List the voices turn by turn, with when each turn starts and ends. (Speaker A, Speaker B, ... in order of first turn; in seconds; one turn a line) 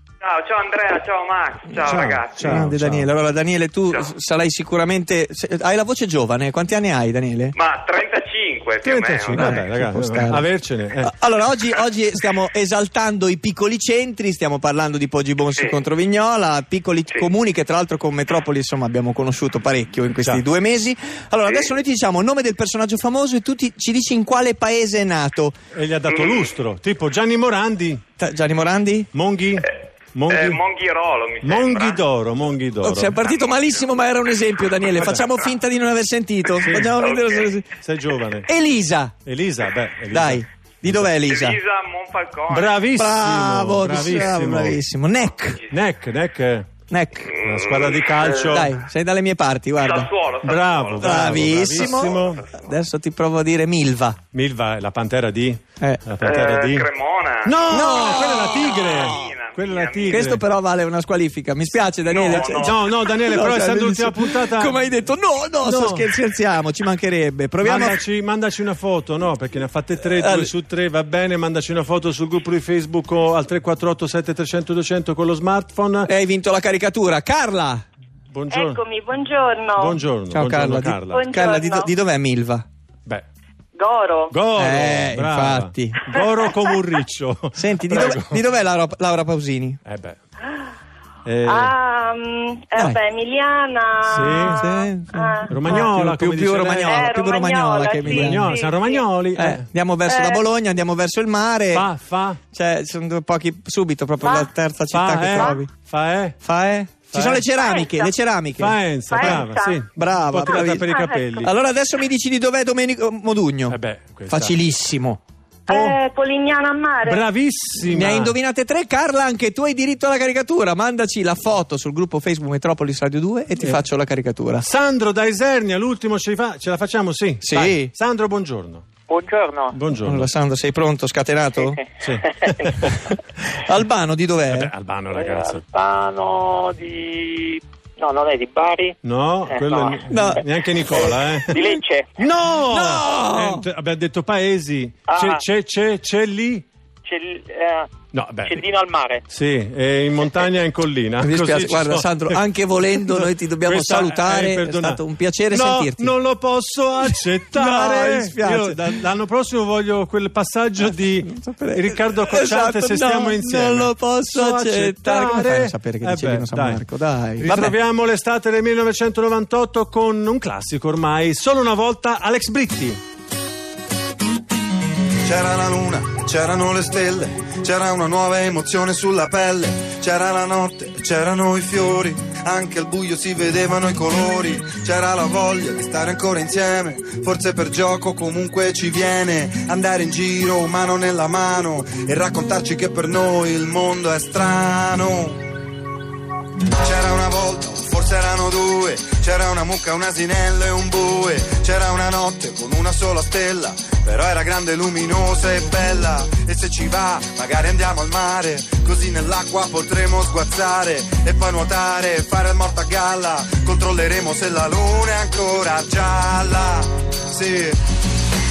Speaker A: 0.2-2.6
Speaker B: 1.7-3.1
Speaker C: 2.4-7.6
Speaker A: 7.6-9.5
Speaker B: 8.8-11.1
Speaker C: 9.3-10.4
Speaker C: 11.1-25.6
Speaker B: 25.7-28.0
Speaker C: 28.2-29.1
Speaker B: 29.1-30.6
Speaker A: 30.3-32.0
Speaker B: 31.4-33.2
Speaker C: 32.8-37.7
Speaker B: 36.6-37.2
Speaker B: 37.8-38.5
Speaker C: 38.5-39.1
Speaker B: 39.2-41.1
Speaker C: 40.1-41.6
Speaker A: 41.3-42.8
Speaker B: 42.5-44.8
Speaker C: 43.0-45.7
Speaker B: 45.7-46.7
Speaker C: 46.9-47.4
Speaker B: 47.3-48.8
Speaker C: 48.4-50.1
Speaker A: 49.8-51.5
Speaker B: 50.4-52.4
Speaker C: 51.0-54.2
Speaker B: 54.3-60.4
Speaker A: 56.2-60.1
Speaker C: 57.7-59.3
Speaker C: 60.1-68.0
Speaker A: 62.1-62.8
Speaker B: 62.3-64.8
Speaker B: 65.6-66.1
Speaker B: 67.6-76.1
Speaker C: 70.1-70.5
Speaker C: 76.1-77.8
Speaker B: 78.3-78.8
Speaker D: 78.5-80.0
Speaker B: 79.8-81.4
Speaker C: 80.3-82.7
Speaker D: 81.1-81.9
Speaker D: 83.8-84.4
Speaker B: 84.3-88.5
Speaker C: 84.6-86.2
Speaker C: 87.6-89.8
Speaker B: 89.8-90.2
Speaker B: 91.2-91.8
Speaker D: 91.5-95.5
Speaker B: 94.0-94.7
Speaker C: 94.3-98.6
Speaker B: 95.5-97.1
Speaker D: 96.9-99.0
Speaker B: 98.0-99.7
Speaker C: 99.3-101.9
Speaker D: 100.1-100.4
Speaker B: 101.7-102.4
Speaker C: 102.5-105.7
Speaker B: 104.9-106.4
Speaker C: 106.4-110.9
Speaker B: 107.1-107.5
Speaker D: 107.6-108.1
Speaker B: 108.6-111.5
Speaker D: 109.1-109.8
Speaker D: 110.5-111.4
Speaker C: 111.4-113.8
Speaker B: 113.7-114.6
Speaker C: 114.3-115.2
Speaker B: 115.7-116.0
Speaker D: 115.7-117.2
Speaker B: 117.0-118.4
Speaker C: 117.9-124.7
Speaker B: 124.6-128.9
Speaker C: 127.4-127.9
Speaker E: 129.1-129.7
Speaker B: 129.7-130.3
Speaker C: 130.0-131.8
Speaker B: 132.0-133.2
Speaker C: 133.5-134.7
Speaker B: 134.5-135.7
Speaker E: 135.2-138.9
Speaker B: 139.0-141.6
Speaker E: 139.6-140.0
Speaker C: 140.1-141.7
Speaker E: 141.3-142.1
Speaker B: 142.2-146.7
Speaker C: 142.7-143.6
Speaker E: 145.1-145.4
Speaker E: 147.1-147.9
Speaker B: 148.1-148.7
Speaker E: 148.5-149.2
Speaker B: 149.3-166.8
Speaker C: 151.2-156.1
Speaker C: 157.5-158.8
Speaker C: 160.8-167.8
Speaker B: 167.4-173.0
Speaker F: 175.2-195.4
Speaker F: 196.8-217.8